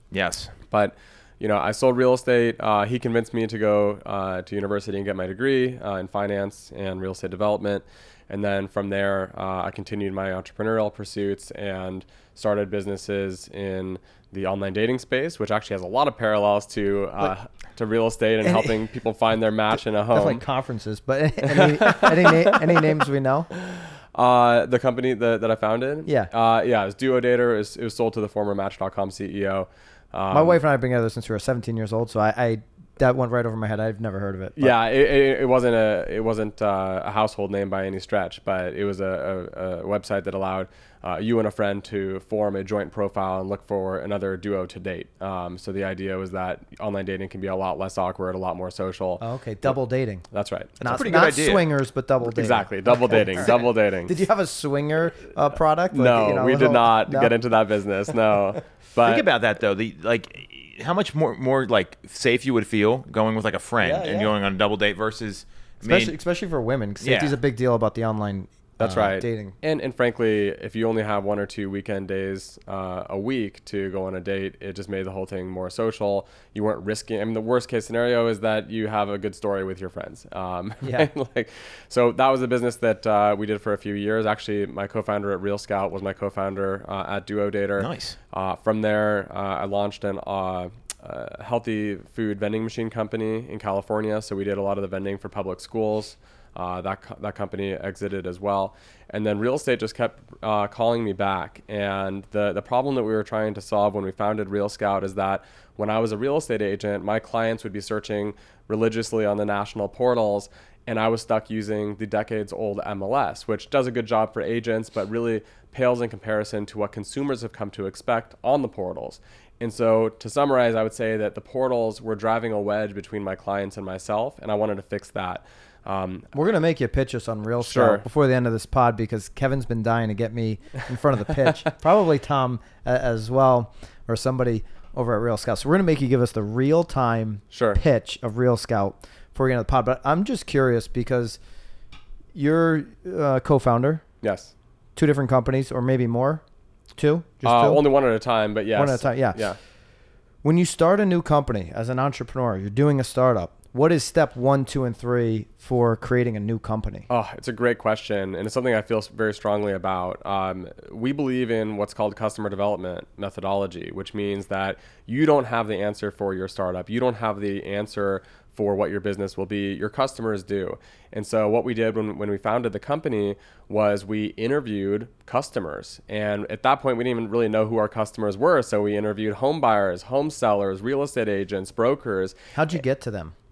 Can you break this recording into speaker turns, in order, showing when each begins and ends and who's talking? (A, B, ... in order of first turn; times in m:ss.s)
0:00.1-0:00.5 A
0:00.7-0:20.4 B
0:18.4-0:18.8 C
0:20.1-0:23.5 C
0:21.5-0:22.8 B
0:23.6-0:30.6 B
0:26.1-0:26.3 C
0:30.3-0:34.7 C
0:34.6-0:49.7 B
0:49.2-0:50.3 C
0:50.3-0:51.0 B
0:50.8-0:57.3 C
0:50.8-0:51.7 A
0:52.2-0:54.1 B
0:55.9-0:59.3 B
0:59.0-1:06.1 A
1:03.8-1:04.3 C
1:05.8-1:09.6 C
1:07.0-1:07.4 A
1:08.8-2:06.3 B
1:20.8-1:21.1 C
1:27.8-1:28.2 A
2:06.3-2:21.4 C
2:07.6-2:08.0 B
2:17.5-2:17.8 B
2:22.3-2:24.0 C
2:24.2-2:24.5 B
2:25.0-2:26.4 C
2:27.0-2:27.8 C
2:27.4-2:29.6 B
2:28.8-2:29.5 C
2:30.4-2:37.1 C
2:37.1-3:02.4 B
3:02.5-3:03.3 C